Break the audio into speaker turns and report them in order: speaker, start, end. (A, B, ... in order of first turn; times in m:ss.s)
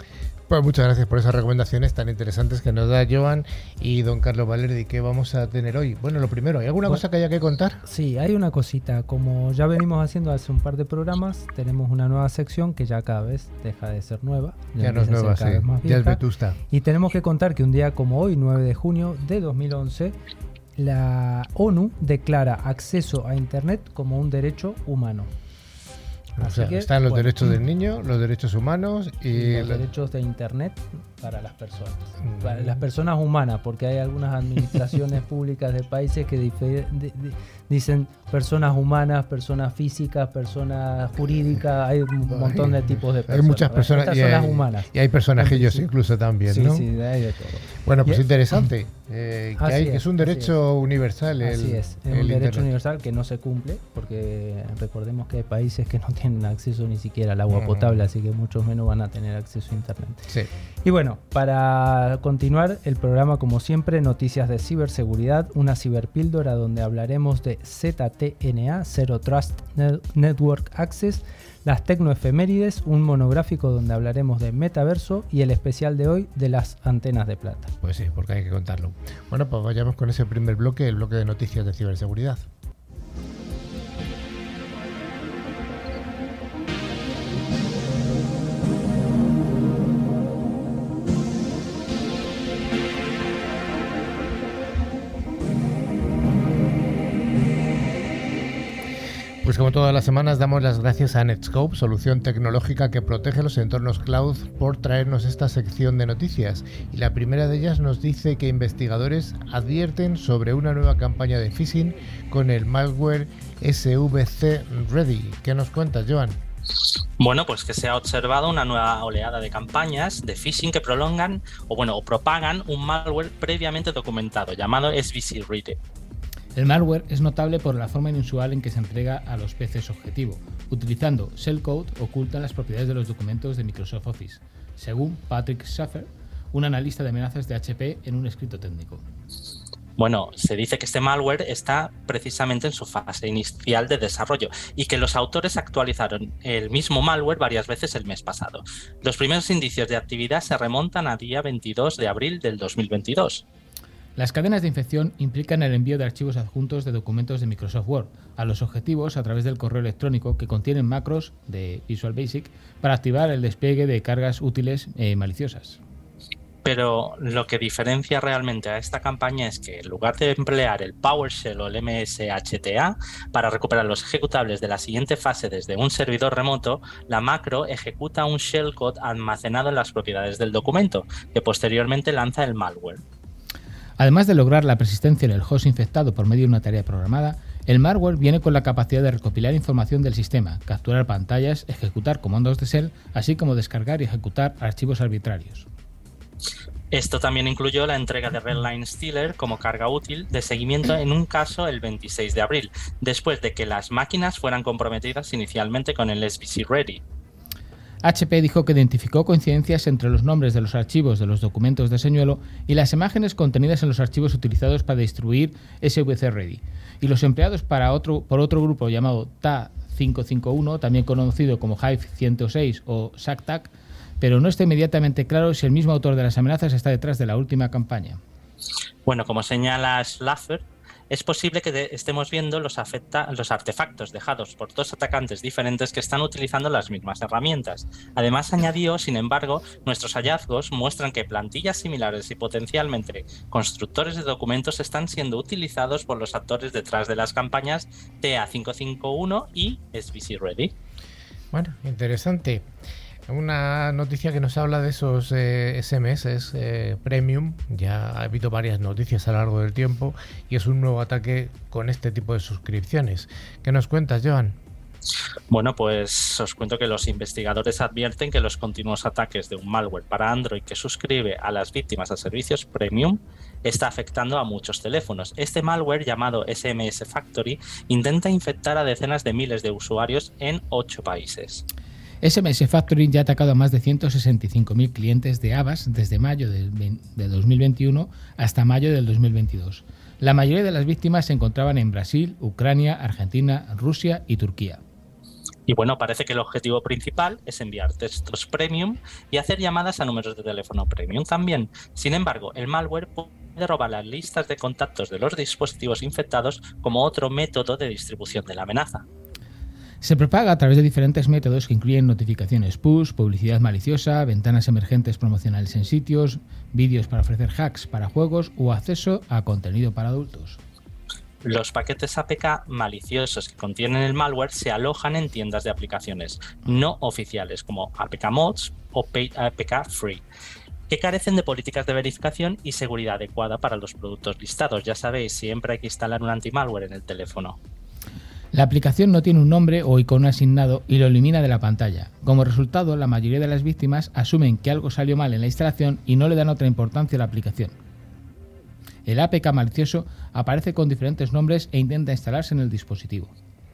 0:00.5-0:07.8 A
0:07.8-0:20.2 B
0:14.8-0:16.6 A
0:20.8-0:25.3 B
0:26.4-0:29.8 A
0:26.4-0:27.3 B
0:29.3-0:45.9 B
0:32.3-0:32.8 A
0:42.3-0:46.9 A
0:46.5-0:48.2 B
0:47.8-0:52.7 A
0:49.6-0:50.6 B
0:51.4-1:00.3 B
0:57.5-0:58.0 A
1:00.8-1:17.7 B
1:17.8-1:22.4 A
1:39.4-1:56.4 A
1:57.2-2:05.8 C
2:06.6-2:19.0 D
2:20.0-2:33.4 C
2:34.2-2:45.8 D
2:46.6-3:03.0 C
3:04.0-3:15.7 D
3:16.9-3:27.0 C
3:28.0-3:48.2 D
3:49.1-4:10.7 C
4:11.5-4:12.7 A
4:13.3-4:24.6 A
4:25.5-4:41.6 C
4:42.2-4:54.8 D
4:55.7-5:09.0 C
5:10.0-5:20.6 D
5:21.4-5:30.2 C
5:30.9-5:37.6 C
5:38.5-5:47.7 D
5:49.1-5:53.3 D